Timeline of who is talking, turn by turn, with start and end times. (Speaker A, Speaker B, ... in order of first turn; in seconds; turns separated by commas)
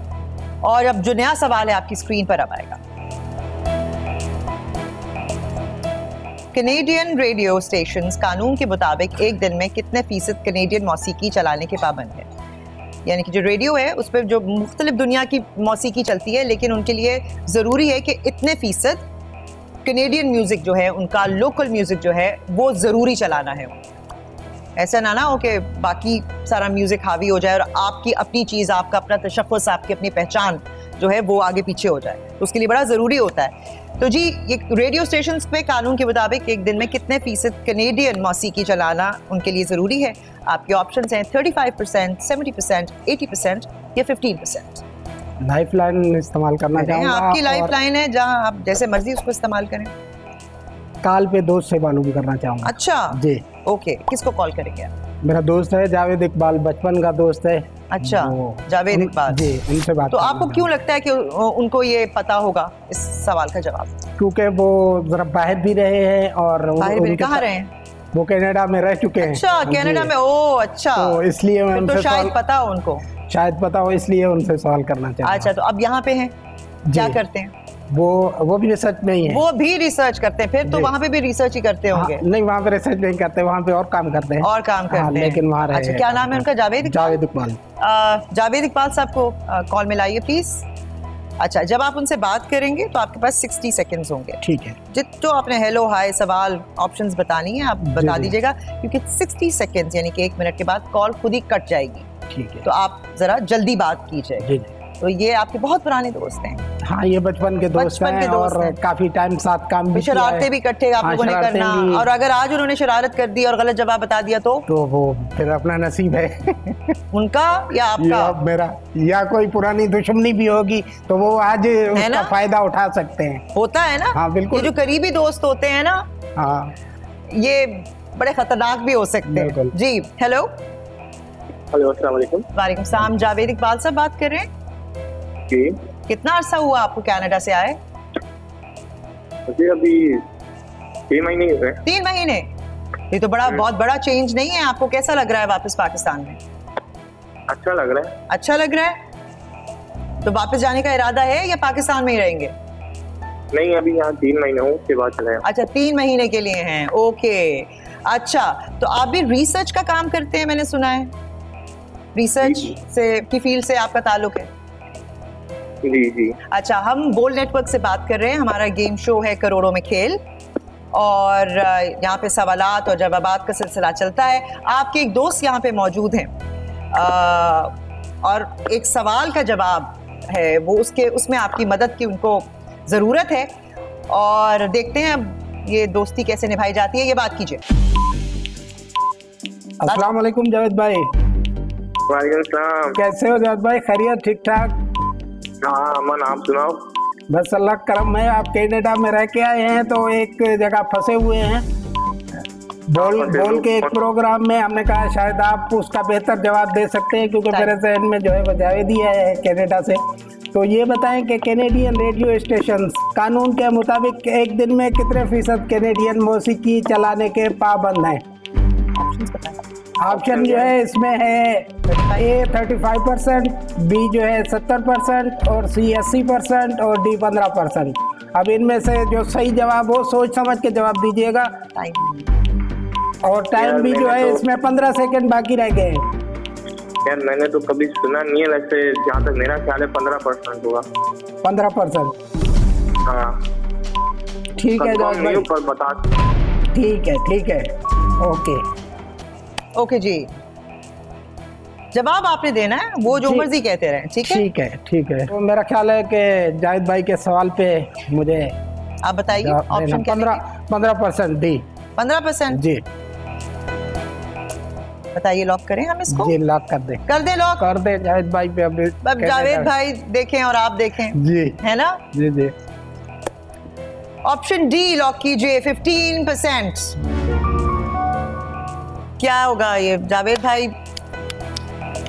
Speaker A: 0.6-2.8, Speaker A: 6.5-12.3, Speaker A: 13.1-19.0, Speaker A: 19.9-23.8, Speaker A: 24.8-44.8, Speaker B: 45.4-47.8, Speaker A: 46.8-49.9, Speaker B: 51.0-53.4, Speaker A: 52.6-54.9, Speaker B: 55.2-60.7, Speaker A: 57.9-59.6, Speaker A: 60.1-64.0, Speaker B: 64.2-67.5, Speaker A: 66.8-67.7, Speaker B: 68.1-70.1, Speaker A: 69.2-71.2, Speaker B: 71.0-72.3, Speaker A: 71.7-73.1, Speaker B: 73.3-75.5, Speaker A: 75.2-76.3, Speaker B: 76.9-77.2, Speaker A: 76.9-77.5, Speaker B: 77.9-79.4, Speaker A: 79.3-82.2, Speaker B: 80.7-80.9, Speaker B: 81.9-87.6, Speaker A: 84.4-87.2, Speaker A: 87.8-90.7, Speaker A: 91.4-94.4, Speaker B: 94.4-94.8, Speaker A: 94.9-102.1, Speaker B: 97.8-98.4, Speaker B: 102.3-102.7, Speaker A: 102.6-104.5, Speaker B: 104.4-104.7, Speaker A: 105.0-106.6, Speaker B: 106.8-110.5, Speaker A: 107.8-108.8, Speaker A: 109.9-114.7, Speaker B: 111.0-112.1, Speaker B: 114.7-116.9, Speaker A: 117.1-118.4, Speaker B: 118.0-123.4, Speaker A: 121.9-122.3, Speaker A: 123.5-126.0, Speaker B: 124.1-124.7, Speaker B: 126.4-126.7, Speaker A: 127.3-130.5, Speaker B: 129.3-129.7, Speaker C: 131.7-132.5, Speaker A: 132.6-134.5, Speaker A: 136.1-137.8, Speaker C: 139.5-140.2, Speaker C: 141.1-141.8, Speaker A: 141.8-142.5, Speaker A: 143.1-146.4, Speaker C: 147.5-148.1, Speaker A: 148.3-149.0, Speaker A: 150.2-152.5, Speaker C: 153.5-155.4, Speaker A: 155.4-161.1, Speaker A: 162.2-164.5, Speaker C: 162.4-162.7, Speaker C: 165.8-166.4, Speaker A: 166.5-170.2, Speaker A: 170.9-176.3, Speaker A: 176.9-183.5, Speaker A: 184.1-187.6, Speaker B: 189.8-191.1, Speaker A: 189.9-190.1, Speaker C: 192.1-192.9, Speaker B: 192.9-194.7, Speaker C: 195.6-196.8, Speaker B: 197.3-201.7, Speaker B: 202.9-210.0, Speaker C: 203.0-203.9, Speaker A: 207.5-207.8, Speaker B: 210.5-218.2, Speaker A: 218.9-219.6, Speaker B: 220.0-231.5, Speaker C: 220.1-220.7, Speaker A: 221.9-222.3, Speaker A: 231.8-232.3, Speaker B: 233.2-236.0, Speaker C: 233.6-234.4, Speaker C: 237.1-240.8, Speaker B: 241.4-242.1, Speaker C: 243.1-243.4, Speaker B: 244.6-245.5, Speaker C: 244.8-246.0, Speaker B: 246.7-247.7, Speaker B: 248.2-248.6, Speaker A: 249.8-250.3, Speaker A: 251.9-254.4, Speaker B: 253.1-253.5, Speaker B: 254.3-258.6, Speaker A: 259.0-260.4, Speaker B: 259.3-261.6, Speaker A: 262.0-262.6, Speaker B: 262.5-262.8, Speaker A: 265.1-266.3, Speaker B: 266.1-267.1, Speaker A: 267.1-267.7, Speaker B: 267.6-269.7, Speaker A: 269.0-272.0, Speaker B: 271.1-271.6, Speaker B: 272.1-272.5, Speaker A: 274.2-277.0, Speaker A: 279.2-280.7